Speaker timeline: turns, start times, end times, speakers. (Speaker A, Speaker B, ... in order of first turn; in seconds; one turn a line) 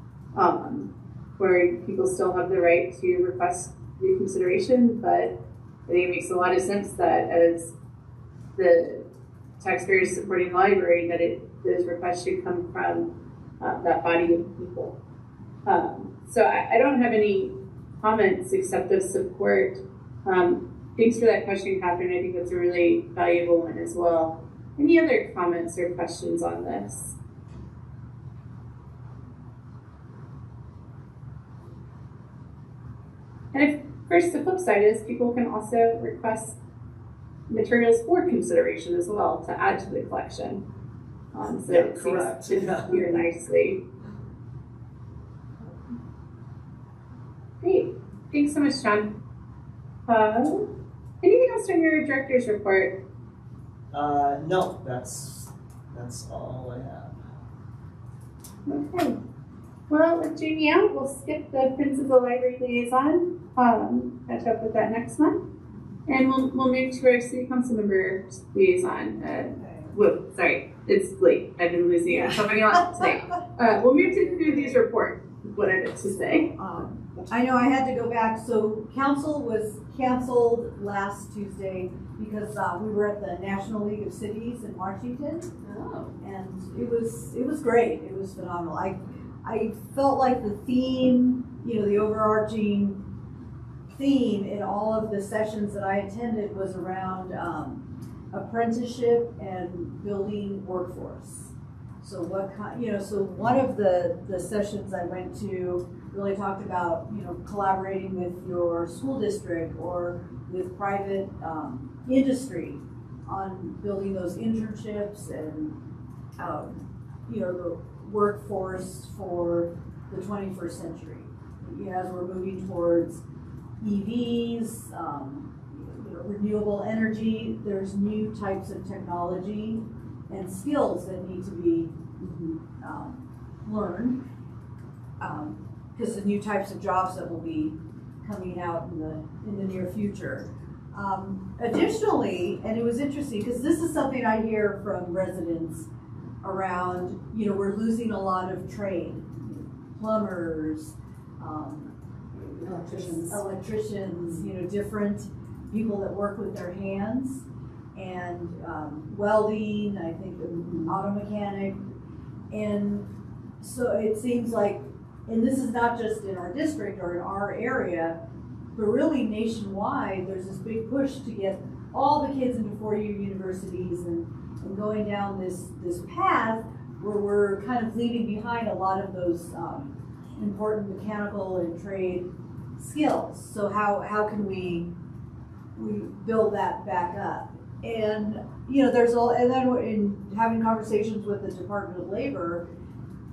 Speaker A: 0.3-5.3
Speaker A: 5.9-7.7
Speaker A: 8.6-9.1
Speaker A: 9.6-14.9
Speaker A: 15.7-27.2
Speaker A: 33.5-36.6
Speaker A: 37.5-40.6
Speaker A: 41.3-43.8
Speaker B: 41.7-43.1
Speaker A: 47.6-49.1
Speaker A: 50.1-50.7
Speaker A: 51.2-53.0
Speaker B: 53.9-57.3
Speaker A: 58.7-59.2
Speaker A: 59.9-65.4
Speaker A: 66.1-76.5
Speaker C: 69.3-69.9
Speaker C: 73.0-73.4
Speaker C: 76.3-85.5
Speaker D: 85.6-86.2
Speaker C: 86.2-93.0
Speaker C: 93.9-115.8
Speaker C: 116.4-123.2
Speaker C: 123.8-131.9
Speaker D: 132.2-132.6
Speaker C: 132.8-134.2
Speaker C: 135.2-145.9
Speaker C: 146.4-157.4
Speaker D: 152.6-153.4
Speaker C: 157.9-161.8
Speaker D: 160.7-160.9
Speaker C: 162.5-163.1
Speaker C: 163.6-168.2
Speaker C: 168.7-184.9
Speaker C: 185.7-192.7